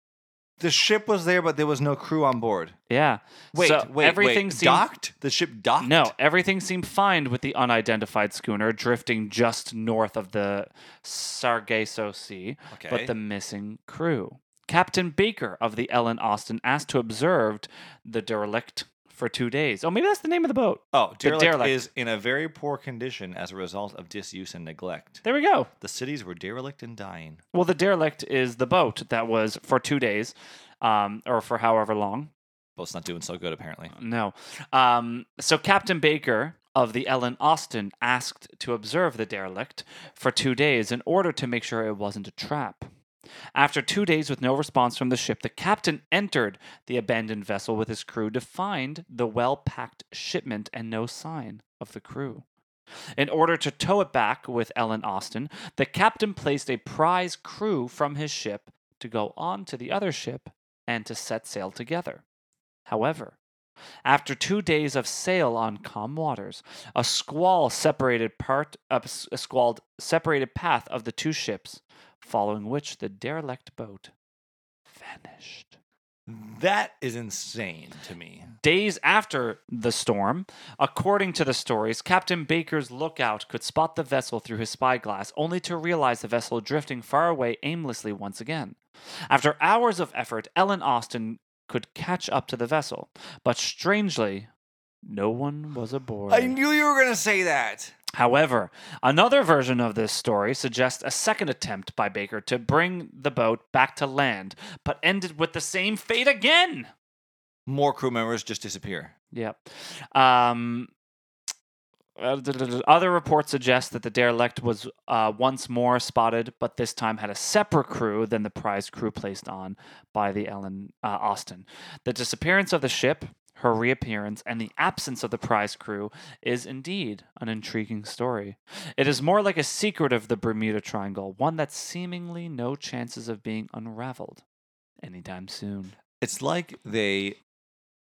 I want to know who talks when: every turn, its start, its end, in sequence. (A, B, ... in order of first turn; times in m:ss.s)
0:00.6-0:02.8 A
0:02.9-0:04.9 B
0:03.5-0:06.1 A
0:05.8-0:21.8 B
0:12.7-0:13.1 A
0:20.9-0:25.2 A
0:25.2-0:25.7 B
0:25.8-0:27.4 A
0:27.5-0:32.3 B
0:32.8-0:33.9 A
0:33.9-0:42.9 B
0:43.6-0:52.4 B
0:53.2-1:02.2 B
1:02.9-1:03.4 B
1:04.1-1:14.1 B
1:14.9-1:15.8 B
1:16.3-1:18.5 A
1:18.6-1:28.8 B
1:29.3-1:34.5 B
1:35.0-1:36.6 B
1:36.3-1:38.0 A
1:38.2-1:46.9 B
1:47.7-1:49.1 A
1:49.3-1:50.9 B
1:52.2-2:14.4 B
2:15.0-2:16.0 B
2:16.2-2:17.4 A